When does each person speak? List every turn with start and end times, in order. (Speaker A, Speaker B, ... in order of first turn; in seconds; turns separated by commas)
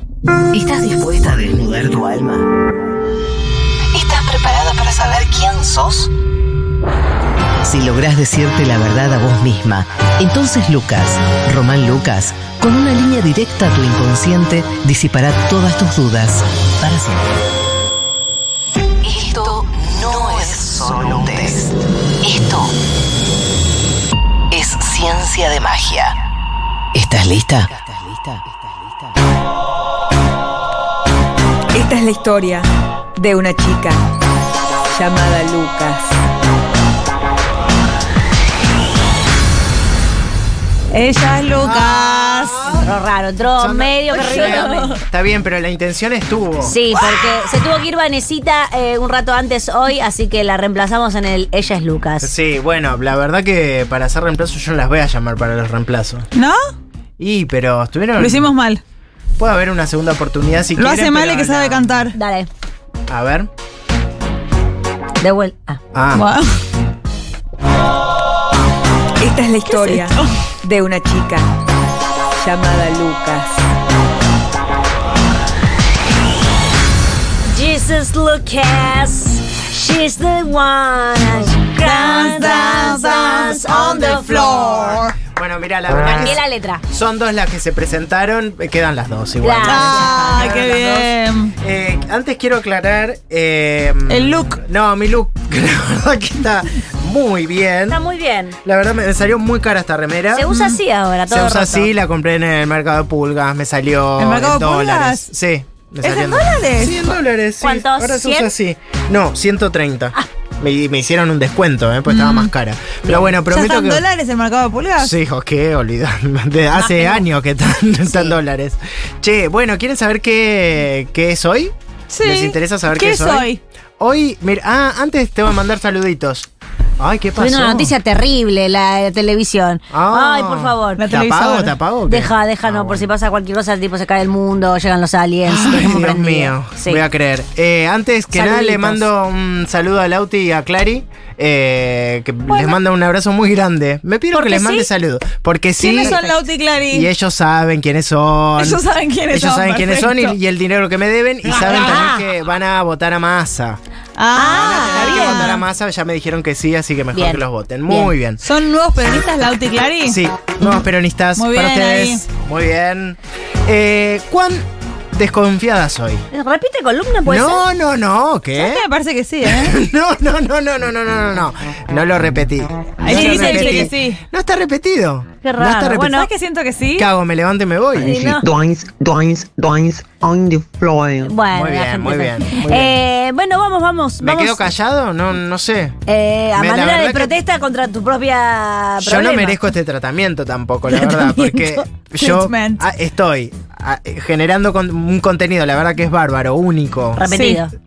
Speaker A: 0.5-2.4, Speaker A: 3.9-6.1, Speaker A: 7.6-17.2, Speaker A: 19.0-22.7, Speaker A: 24.5-26.1, Speaker A: 26.9-28.4, Speaker B: 31.7-34.1, Speaker B: 34.9-36.1, Speaker C: 40.9-42.7, Speaker D: 41.6-42.9, Speaker E: 42.8-45.0, Speaker D: 43.6-46.8, Speaker C: 44.2-44.9, Speaker E: 46.6-52.4, Speaker D: 52.2-56.3, Speaker C: 56.4-56.6, Speaker D: 57.2-58.5, Speaker C: 58.2-58.8, Speaker D: 59.4-62.1, Speaker C: 60.8-62.1, Speaker E: 62.1-62.5, Speaker D: 63.1-63.5, Speaker E: 65.2-65.8, Speaker D: 65.9-66.3, Speaker C: 66.1-66.5, Speaker B: 69.2-71.5, Speaker C: 69.6-70.3, Speaker B: 72.4-73.6, Speaker E: 77.5-85.0, Speaker C: 81.8-85.2, Speaker D: 85.2-98.0, Speaker E: 86.2-86.8, Speaker E: 89.4-90.5, Speaker C: 89.7-91.5, Speaker C: 94.1-94.6, Speaker E: 97.9-98.6, Speaker D: 98.6-100.5, Speaker E: 100.3-101.9, Speaker D: 101.3-114.0, Speaker C: 104.2-105.3, Speaker C: 106.0-107.2, Speaker E: 107.6-108.5, Speaker C: 112.1-112.5, Speaker C: 113.5-115.1, Speaker D: 115.0-123.5, Speaker E: 116.7-117.2, Speaker E: 118.1-118.4, Speaker C: 122.1-123.6, Speaker D: 124.0-126.5, Speaker D: 127.0-128.0, Speaker E: 127.4-131.1, Speaker D: 129.9-133.1, Speaker C: 131.0-131.8, Speaker E: 132.1-137.0, Speaker D: 135.4-146.2, Speaker E: 138.3-139.1, Speaker E: 144.3-144.9, Speaker C: 145.8-147.1, Speaker E: 146.0-146.3, Speaker D: 146.9-153.8, Speaker C: 148.6-150.4, Speaker E: 151.5-152.3, Speaker C: 151.5-152.1, Speaker C: 154.2-155.6, Speaker E: 154.3-155.5, Speaker D: 154.5-158.4, Speaker E: 157.1-158.1, Speaker C: 158.4-160.2, Speaker D: 160.0-166.2, Speaker C: 161.4-162.3, Speaker E: 166.3-167.7, Speaker D: 167.3-168.8, Speaker C: 168.6-169.8, Speaker D: 169.4-176.3, Speaker C: 173.0-174.2, Speaker E: 173.1-173.9, Speaker E: 175.4-176.3, Speaker C: 176.0-177.1, Speaker D: 176.9-178.3, Speaker E: 178.0-178.5, Speaker F: 178.0-181.4, Speaker E: 181.2-184.6, Speaker D: 181.5-182.9, Speaker D: 184.2-186.0, Speaker E: 186.1-189.6, Speaker D: 186.6-187.3, Speaker D: 189.0-197.3, Speaker E: 190.9-191.9, Speaker C: 192.2-192.8, Speaker E: 197.2-197.7, Speaker C: 197.3-197.6